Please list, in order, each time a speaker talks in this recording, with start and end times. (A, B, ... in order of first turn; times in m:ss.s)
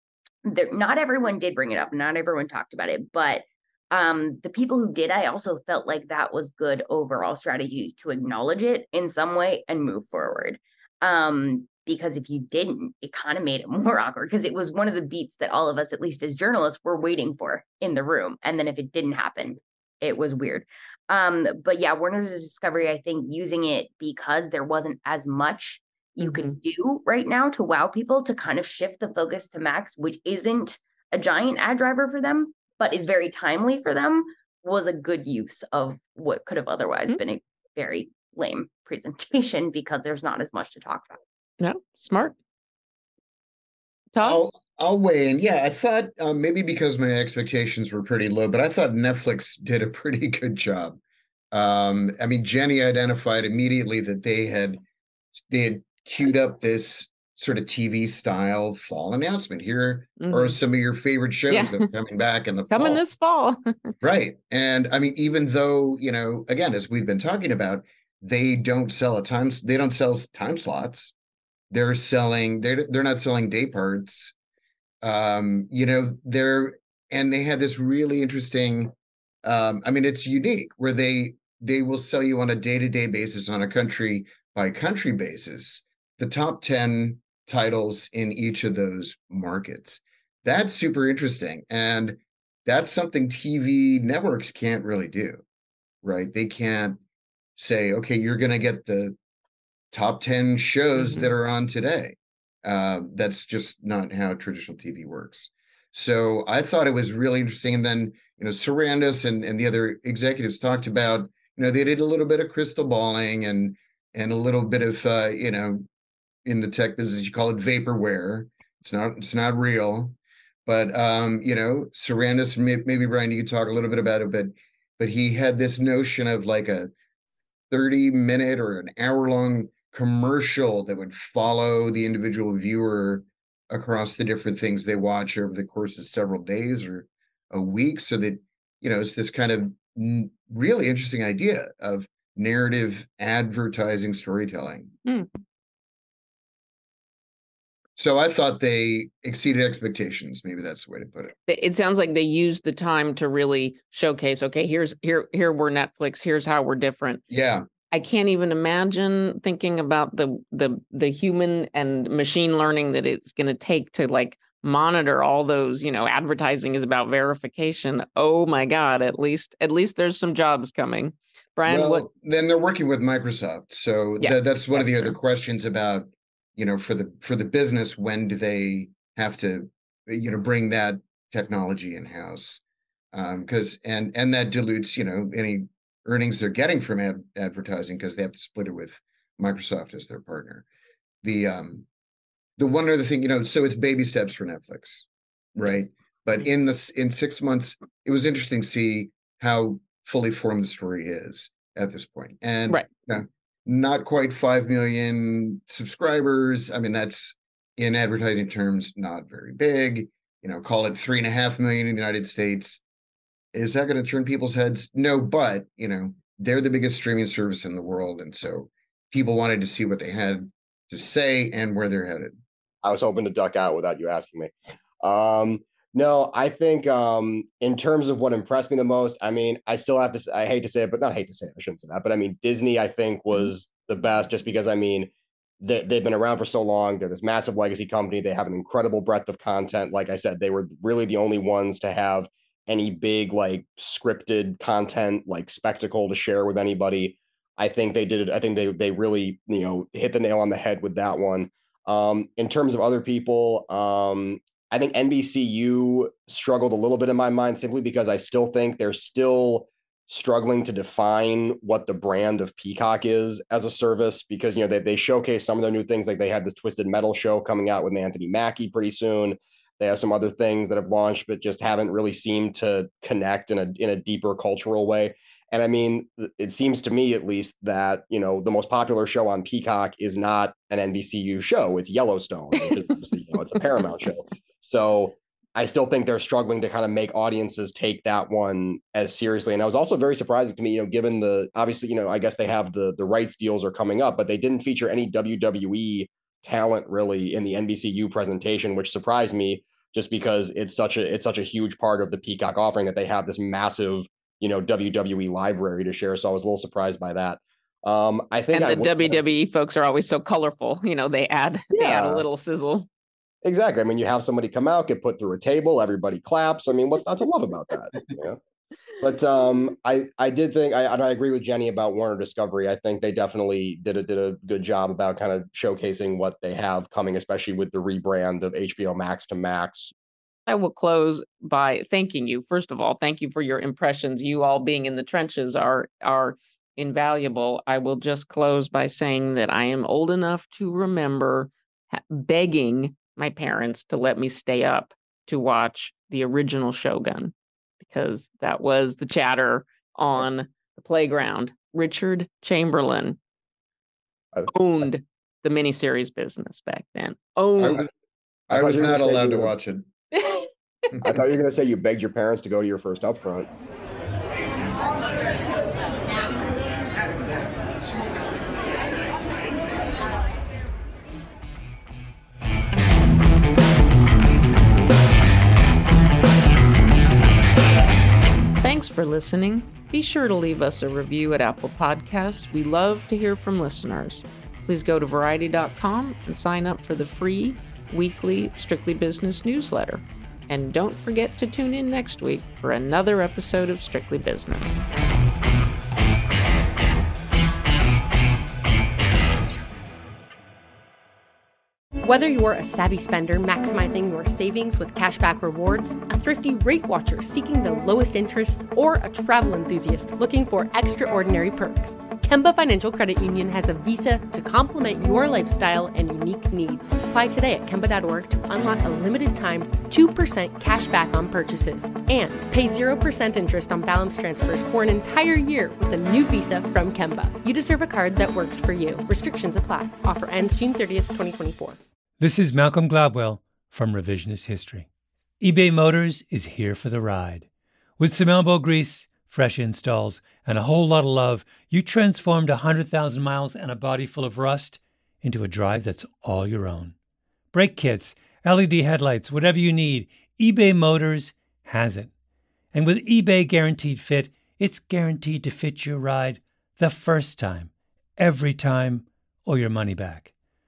0:00.5-0:41.2 A
0:26.2-0:26.6 B
0:41.6-0:42.4 B
0:44.1-0:44.4 B
0:44.2-0:51.0 C
0:51.5-0:54.8 C
0:55.4-1:03.0 C
1:00.2-1:00.6 B
1:01.5-1:01.9 B
1:02.7-1:03.9 B
1:04.0-1:11.1 C
1:11.7-1:14.3 C
1:15.0-1:18.9 C
1:19.4-1:35.4 C
1:36.0-1:37.0 C
1:37.6-1:39.2 C
1:39.9-1:55.9 C
1:41.0-1:41.3 B
1:56.4-2:06.9 C
2:07.7-2:24.9 C
2:28.0-2:31.3 C
2:31.5-2:37.2 B
2:37.3-2:37.7 C
2:37.9-2:52.1 B
2:51.7-3:02.6 C
2:54.2-2:55.1 B
3:03.1-3:10.6 C
3:11.2-3:11.9 C
3:12.6-3:32.8 C
3:33.5-3:42.4 C
3:42.8-3:55.1 D
3:55.6-5:09.2 D
5:08.5-5:12.9 B
5:11.7-5:12.2 D
5:13.4-5:18.4 D
5:19.0-5:29.9 D
5:30.5-5:53.2 B
5:54.5-5:57.9 B
5:57.6-5:57.9 D
5:58.5-5:59.5 D
5:58.5-5:59.9 C
6:01.0-6:03.5 D
6:18.6-6:34.8 B
6:42.0-7:11.8 E
7:12.2-7:14.9 F
7:15.4-7:17.5 F
7:18.0-7:27.0 F
7:27.5-7:32.1 F
7:32.7-7:40.3 F